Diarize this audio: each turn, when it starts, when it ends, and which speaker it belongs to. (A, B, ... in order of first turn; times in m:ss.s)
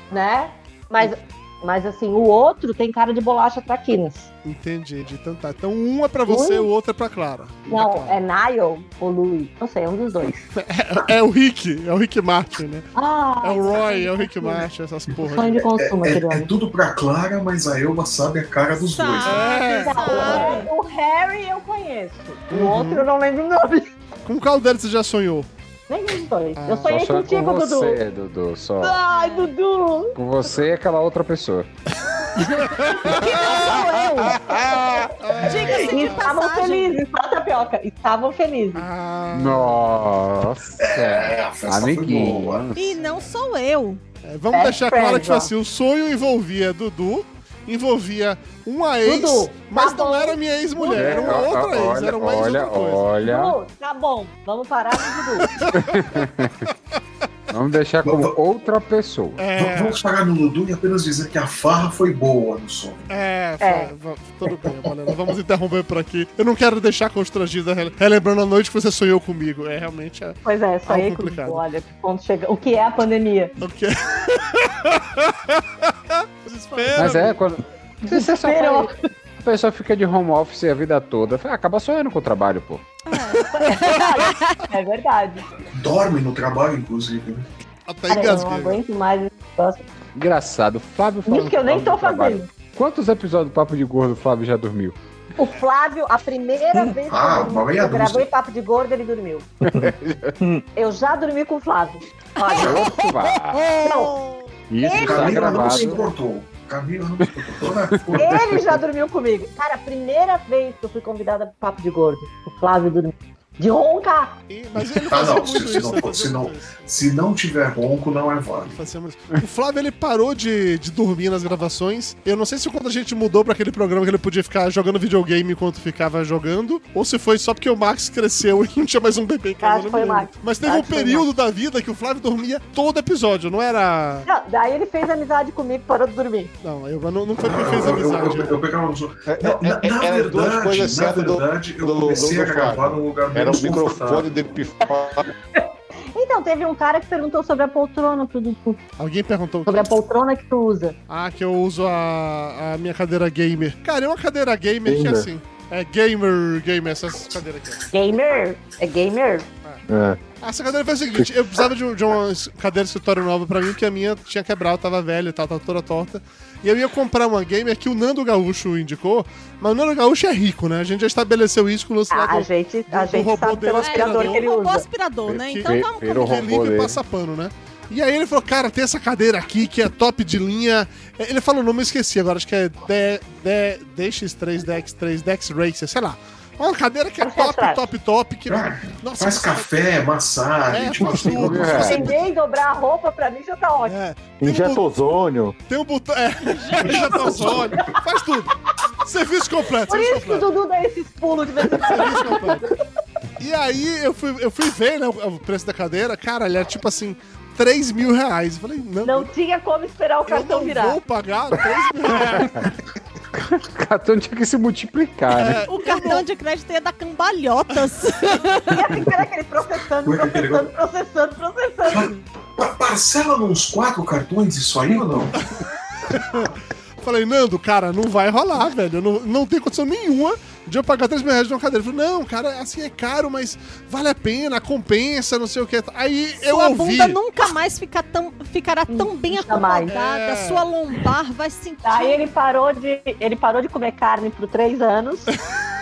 0:00.1-0:04.3 A
0:04.4-0:08.2 B
0:06.3-0:06.7 A
0:07.7-0:10.4 A
0:10.6-0:12.9 B
0:13.0-0:14.7 A
0:13.4-0:15.6 B
0:15.3-0:16.5 A
0:15.7-0:19.6 C
0:18.8-0:20.7 D
0:19.2-0:20.5 B
0:19.4-0:23.9 A
0:20.2-0:20.5 E
0:22.5-0:23.1 B
0:24.3-0:25.5 B
0:25.9-0:28.0 A
0:26.6-0:27.0 B
0:26.9-0:29.0 E
0:28.8-0:30.2 A
0:29.1-0:29.5 D
0:30.2-0:31.7 E
0:32.4-0:36.3 B
0:33.0-0:34.4 E
0:33.1-0:34.6 D
0:33.5-0:34.8 A
0:35.4-0:37.0 D
0:35.6-0:38.8 A
0:38.8-0:39.8 B
0:39.3-0:42.9 E
0:40.8-0:42.7 C
0:42.8-0:44.0 D
0:44.2-0:53.0 B
0:44.5-0:45.5 A
0:49.0-0:51.4 A
0:50.9-0:53.6 E
0:53.2-0:55.5 A
0:55.4-0:56.3 B
0:55.7-0:56.7 E
0:57.5-0:59.5 E
0:58.0-0:58.4 C
0:59.4-1:00.0 B
0:59.5-1:03.0 C
1:03.1-1:11.6 B
1:03.6-1:03.9 A
1:10.4-1:13.6 A
1:13.6-1:17.4 B
1:16.8-1:17.1 D
1:17.0-1:22.8 E
1:18.0-1:18.9 A
1:23.1-1:24.6 D
1:23.4-1:25.5 A
1:23.6-1:24.0 B
1:25.8-1:27.4 C
1:27.9-1:28.8 B
1:28.1-1:29.8 A
1:30.2-1:35.0 E
1:31.3-1:32.5 A
1:35.4-1:39.5 A
1:37.1-1:38.3 C
1:39.6-1:40.4 E
1:39.7-1:40.6 F
1:40.8-1:44.2 A
1:42.4-1:44.2 D
1:42.5-1:43.7 E
1:44.7-1:46.1 E
1:44.8-1:46.1 A
1:44.9-1:48.7 C
1:47.2-1:48.6 E
1:48.2-1:54.4 A
1:54.5-1:57.1 B
1:55.1-1:58.8 C
1:58.6-2:14.3 B
2:09.6-2:11.3 A
2:14.3-2:16.5 A
2:16.6-2:18.6 B
2:17.4-2:24.3 C
2:19.2-2:25.3 G
2:25.6-2:28.8 A
2:29.0-2:30.0 B
2:29.7-2:31.0 A
2:31.1-2:37.9 B
2:34.9-2:35.3 F
2:37.9-2:39.5 A
2:39.9-2:40.2 F
2:40.4-2:54.5 B
2:52.1-2:54.8 A
2:53.8-2:56.4 D
2:55.3-3:09.7 B
2:55.6-2:57.0 E
3:07.2-3:07.8 A
3:08.5-3:12.2 C
3:10.7-3:12.1 B
3:11.2-3:12.1 E
3:11.8-3:14.0 A
3:13.9-3:14.8 B
3:14.4-3:15.6 F
3:15.7-3:20.5 B
3:16.7-3:17.3 D
3:16.8-3:17.8 C
3:19.9-3:22.5 A
3:21.8-3:22.7 B
3:23.4-3:29.3 B
3:29.0-3:31.0 A
3:30.3-3:32.7 B
3:32.3-3:32.7 E
3:33.4-3:35.6 E
3:35.3-3:36.2 B
3:35.7-3:38.8 D
3:38.7-3:42.1 A
3:40.0-3:40.7 C
3:41.9-3:45.4 C
3:46.1-3:57.2 B
3:56.4-4:02.3 D
3:58.9-3:59.9 A
3:59.9-4:00.6 B
4:01.8-4:05.3 A
4:05.3-4:05.6 B